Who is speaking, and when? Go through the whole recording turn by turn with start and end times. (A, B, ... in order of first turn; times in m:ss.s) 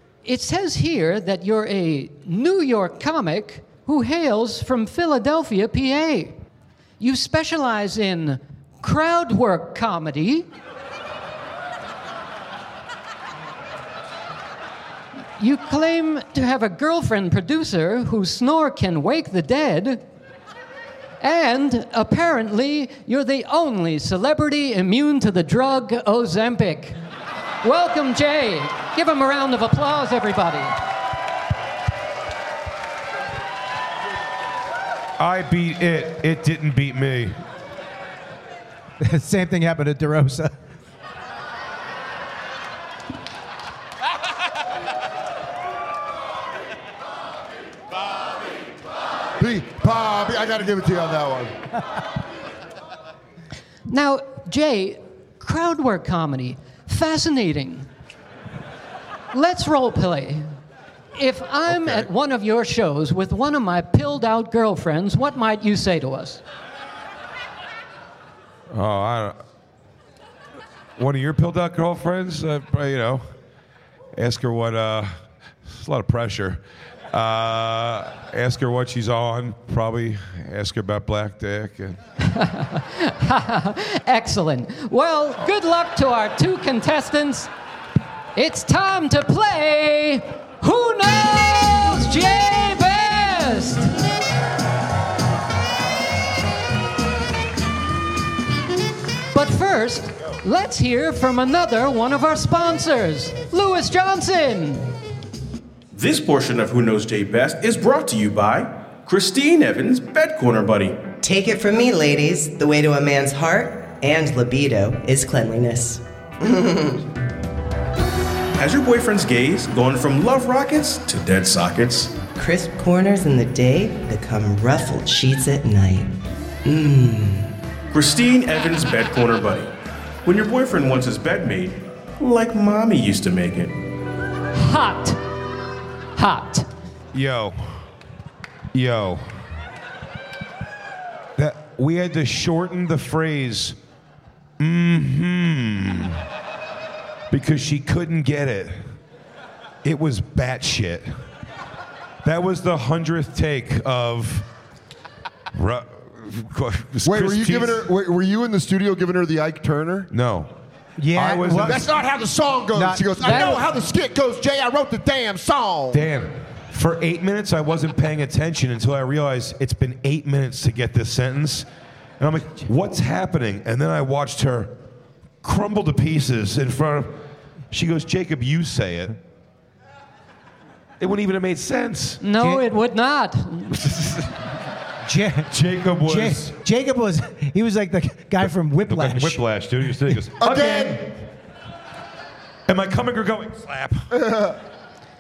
0:00.2-0:06.4 A
0:07.0-0:10.5 A
0:15.4-0:20.0 A
0:21.2-0:27.0 A
0:27.6-0:30.8 A
0:35.2-0:37.4 B
0:39.0-0:40.5 C
0:49.4-0:51.5 D
0:53.9-0:57.9 A
0:59.3-1:00.5 A
1:01.2-1:06.4 A
1:08.7-1:09.4 B
1:11.0-1:13.2 B
1:14.2-1:15.1 B
1:15.7-1:16.6 B
1:17.1-1:22.0 B
1:22.2-1:27.5 A
1:28.4-1:33.9 A
1:39.3-1:44.9 A
1:45.9-1:51.0 E
1:51.2-1:57.0 F
1:58.6-2:02.2 E
2:02.4-2:06.1 F
2:06.6-2:07.5 F
2:07.9-2:09.7 E
2:10.2-2:13.8 E
2:14.6-2:15.2 A
2:16.2-2:16.7 A
2:17.2-2:17.5 B
2:18.7-2:19.2 B
2:21.4-2:23.8 B
2:24.6-2:26.2 B
2:27.3-2:28.8 B
2:29.8-2:31.1 B
2:32.2-2:34.4 B
2:35.5-2:37.9 B
2:37.0-2:40.1 D
2:40.1-2:40.5 B
2:41.0-2:41.9 C
2:41.2-2:41.9 B
2:41.6-2:46.0 D
2:42.8-2:43.6 C
2:43.2-2:43.6 A
2:45.9-2:51.7 B
2:52.2-2:54.7 B
2:55.4-2:57.1 B
2:57.7-2:59.2 B
3:01.0-3:02.2 B
3:02.2-3:03.8 A
3:02.4-3:02.6 C
3:03.8-3:04.1 B
3:05.1-3:05.5 C
3:05.5-3:06.5 B
3:06.0-3:09.4 C
3:08.9-3:10.5 B
3:10.4-3:11.0 D
3:10.4-3:11.0 C
3:12.7-3:14.0 B
3:14.1-3:14.6 D